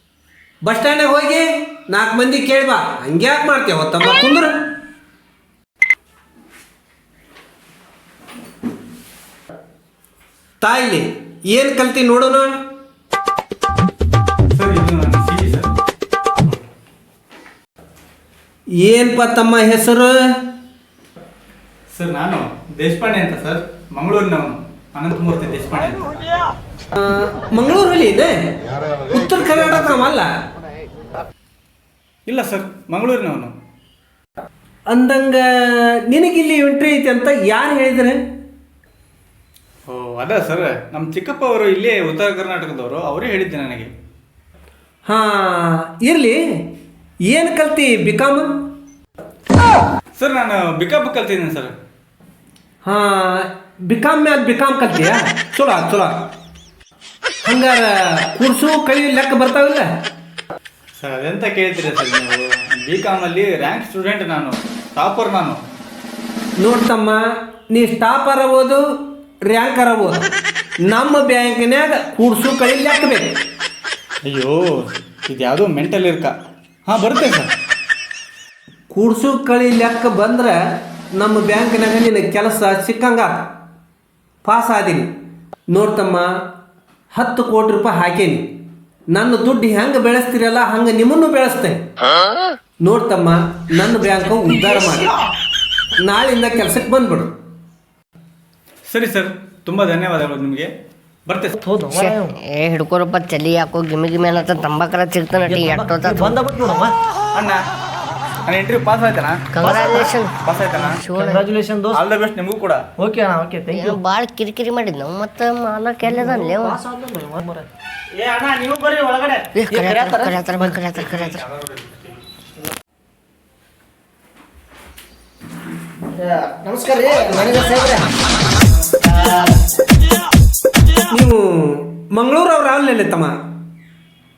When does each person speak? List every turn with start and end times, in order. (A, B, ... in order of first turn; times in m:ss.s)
0:00.6-0:04.6 A
0:10.6-0:12.5 A
0:14.5-0:15.7 B
0:18.8-0:20.2 A
0:21.9-0:26.0 B
0:27.0-0:28.3 A
0:29.1-0:30.3 A
0:32.3-0:33.5 B
0:34.9-0:38.2 A
0:39.9-0:43.9 B
0:45.1-0:46.4 A
0:47.3-0:48.5 A
0:50.2-0:51.7 B
0:52.8-0:56.3 A
0:57.4-0:59.9 A
1:01.0-1:05.6 B
1:06.6-1:08.9 A
1:09.5-1:10.3 A
1:10.9-1:13.4 A
1:14.2-1:16.3 B
1:16.9-1:17.5 B
1:18.9-1:20.6 A
1:21.2-1:23.5 A
1:24.4-1:25.1 A
1:25.7-1:26.3 A
1:27.1-1:28.5 A
1:29.1-1:31.8 A
1:32.8-1:35.1 A
1:36.0-1:37.3 A
1:38.9-1:40.7 B
1:41.3-1:41.6 B
1:41.6-1:42.4 C
1:41.9-1:46.4 D
1:45.4-1:46.9 C
1:48.5-1:49.4 B
1:49.5-1:51.5 D
1:49.6-1:50.2 C
1:50.4-1:51.1 B
1:51.2-1:52.0 C
1:51.9-1:52.8 B
1:53.0-1:54.0 C
1:53.7-1:56.8 D
1:56.0-1:57.7 C
1:58.3-1:59.5 B
1:59.5-2:01.4 D
1:59.7-2:00.6 C
2:01.0-2:02.2 B
2:06.2-2:08.1 C
2:09.0-2:09.6 D
2:11.1-2:13.4 A